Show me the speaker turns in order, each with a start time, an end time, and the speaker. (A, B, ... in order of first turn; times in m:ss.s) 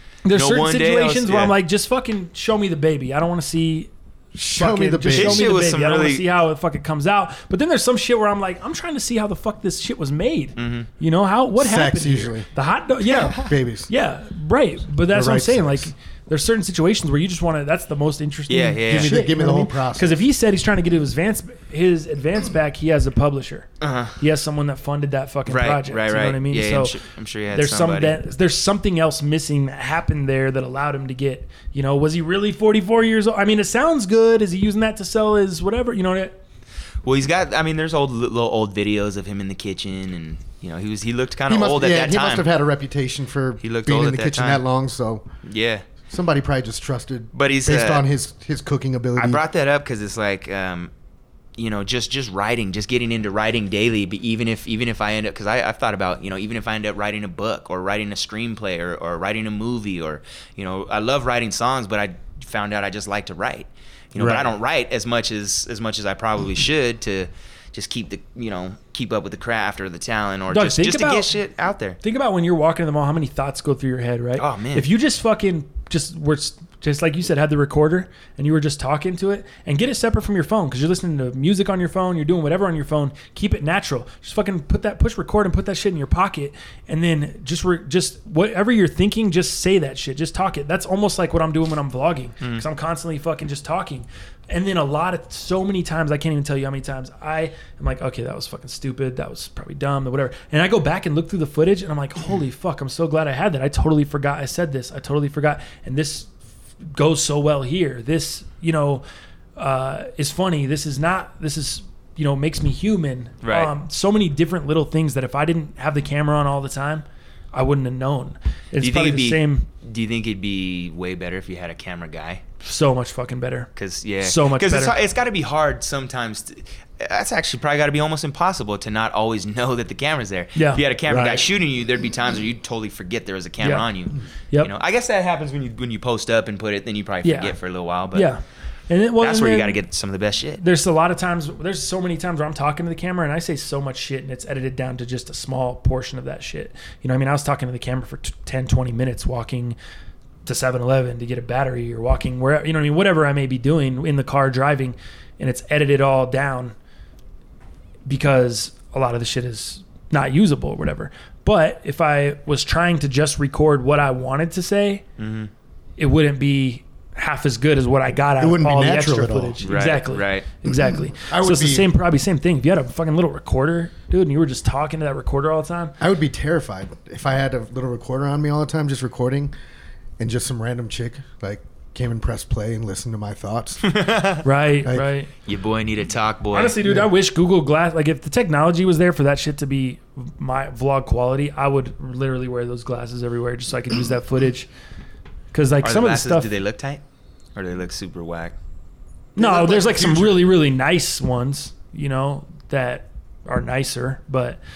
0:00.2-0:27.0 A
0:00.3-0:01.5 B
0:04.4-0:05.5 C
0:05.1-0:06.3 B
0:10.6-0:10.9 B
0:11.6-0:12.5 C
0:13.0-0:13.9 C
0:15.1-0:15.9 C
0:18.5-0:19.2 B
0:18.9-0:20.2 C
0:23.8-0:24.2 B
0:25.5-0:28.2 B
0:27.5-0:36.4 A
0:37.0-0:42.5 B
0:41.5-0:45.2 C
0:43.6-0:44.6 B
0:45.4-0:45.8 B
0:46.1-0:49.4 C
0:47.3-0:48.0 B
0:49.2-0:50.9 B
0:51.6-1:12.0 B
1:10.5-1:11.3 A
1:12.0-1:46.3 A
1:14.4-1:14.9 B
1:46.8-1:49.0 A
1:49.6-1:59.7 A
1:53.4-1:53.7 B
1:58.8-2:02.4 B
2:02.6-2:03.7 A
2:03.8-2:18.3 B
2:04.2-2:05.0 A
2:10.6-2:10.8 A
2:11.1-2:11.4 C
2:13.6-2:13.9 A
2:17.2-2:17.6 A
2:18.1-2:19.8 A
2:19.2-2:20.6 B
2:20.6-2:29.8 A
2:30.4-2:36.7 A
2:38.0-2:45.0 A
2:45.2-2:45.5 B
2:46.0-2:55.9 A
2:48.4-2:49.6 C
2:49.6-2:50.5 B
2:50.6-2:51.9 C
2:56.0-2:59.5 C
3:00.2-3:03.9 C
3:03.8-3:04.4 B
3:04.4-3:05.3 A
3:05.4-3:06.8 B
3:06.5-3:14.7 A
3:06.8-3:07.1 C
3:15.5-3:16.5 A
3:15.8-3:17.0 B
3:17.5-3:18.5 B
3:19.4-3:20.5 C
3:19.4-3:24.6 A